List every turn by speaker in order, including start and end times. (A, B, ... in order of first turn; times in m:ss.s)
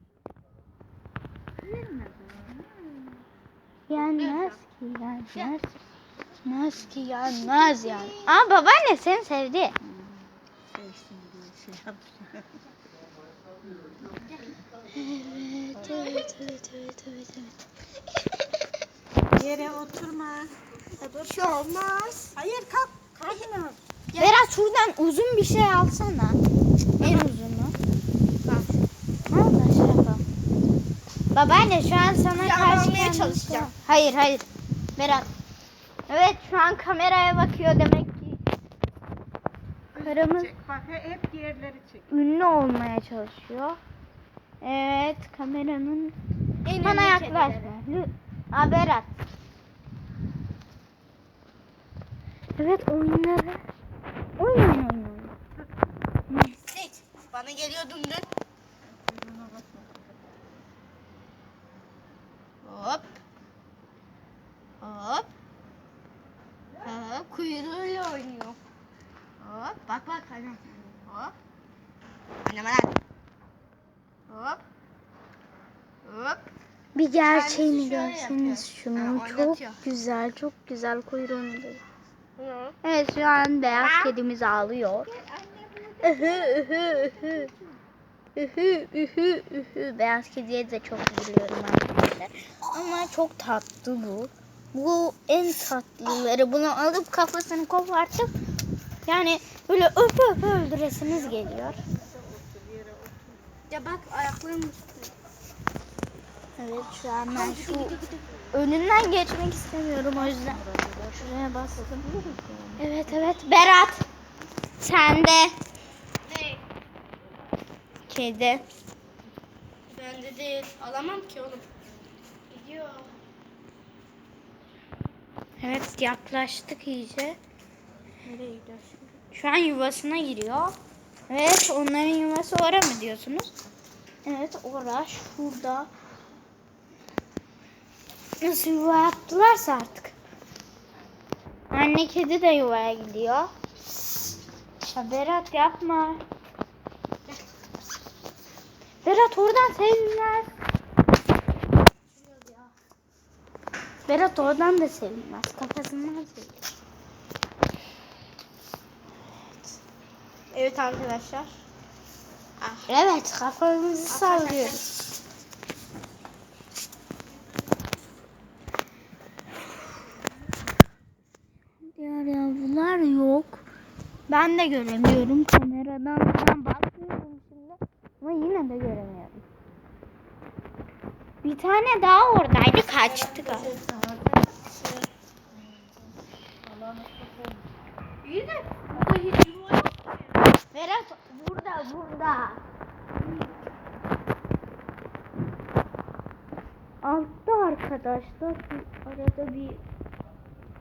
0:01.8-0:02.6 A
0:03.9-0:05.7 B
0:03.9-0:04.6 C
0:06.4-0:09.8 B
0:07.3-0:08.3 C
0:10.7-0:12.2 A
0:14.9-0:17.5 B
0:15.8-0:16.3 C
0:19.3-0:24.4 C
0:19.5-0:20.1 A
0:22.4-0:23.4 A
0:24.2-0:26.4 B
0:27.0-0:27.3 C
0:27.0-0:27.7 B
0:28.4-0:28.7 C
0:29.3-0:30.2 B
0:31.3-0:35.3 B
0:32.3-0:33.7 C
0:36.1-0:38.4 B
0:39.9-0:40.6 B
0:40.0-0:42.0 A
0:42.1-0:43.8 B
0:44.6-0:46.2 B
0:46.6-0:47.7 C
0:46.8-0:49.1 B
0:52.6-0:53.6 B
0:54.4-0:55.3 B
0:56.3-0:56.6 B
0:56.7-0:58.3 C
1:02.6-1:03.2 C
1:04.8-1:05.3 C
1:06.8-1:08.6 C
1:09.4-1:11.3 C
1:12.4-1:12.9 C
1:14.3-1:14.6 C
1:16.0-1:16.4 C
1:16.9-1:21.8 B
1:17.2-1:19.8 C
1:22.4-1:22.8 C
1:22.8-1:25.1 B
1:23.7-1:24.1 C
1:25.1-1:27.8 C
1:26.0-1:27.5 B
1:28.4-1:38.3 B
1:39.0-1:41.8 B
1:42.2-1:43.4 A
1:43.7-1:45.1 C
1:46.6-1:48.0 B
1:47.3-1:48.3 C
1:48.5-1:54.0 B
1:50.4-1:51.0 A
1:52.1-1:52.7 A
1:54.8-1:55.6 B
1:56.2-1:56.6 C
1:58.1-1:58.6 B
1:59.9-2:01.7 C
2:02.5-2:03.1 C
2:05.6-2:07.4 B
2:08.2-2:09.2 C
2:09.3-2:10.8 B
2:11.3-2:13.5 B
2:14.2-2:15.9 B
2:18.4-2:20.1 B
2:21.7-2:23.5 B
2:24.8-2:26.2 B
2:29.0-2:30.5 B
2:32.2-2:32.7 C
2:34.0-2:36.7 B
2:40.5-2:41.5 C
2:42.6-2:42.9 C
2:42.9-2:44.8 B
2:44.1-2:44.9 C
2:51.9-2:53.6 B
2:54.3-2:59.4 B
3:01.4-3:03.8 B
3:03.3-3:04.5 A
3:04.7-3:05.0 C
3:06.7-3:07.6 A
3:08.2-3:10.0 C
3:10.7-3:12.6 B
3:17.0-3:19.8 B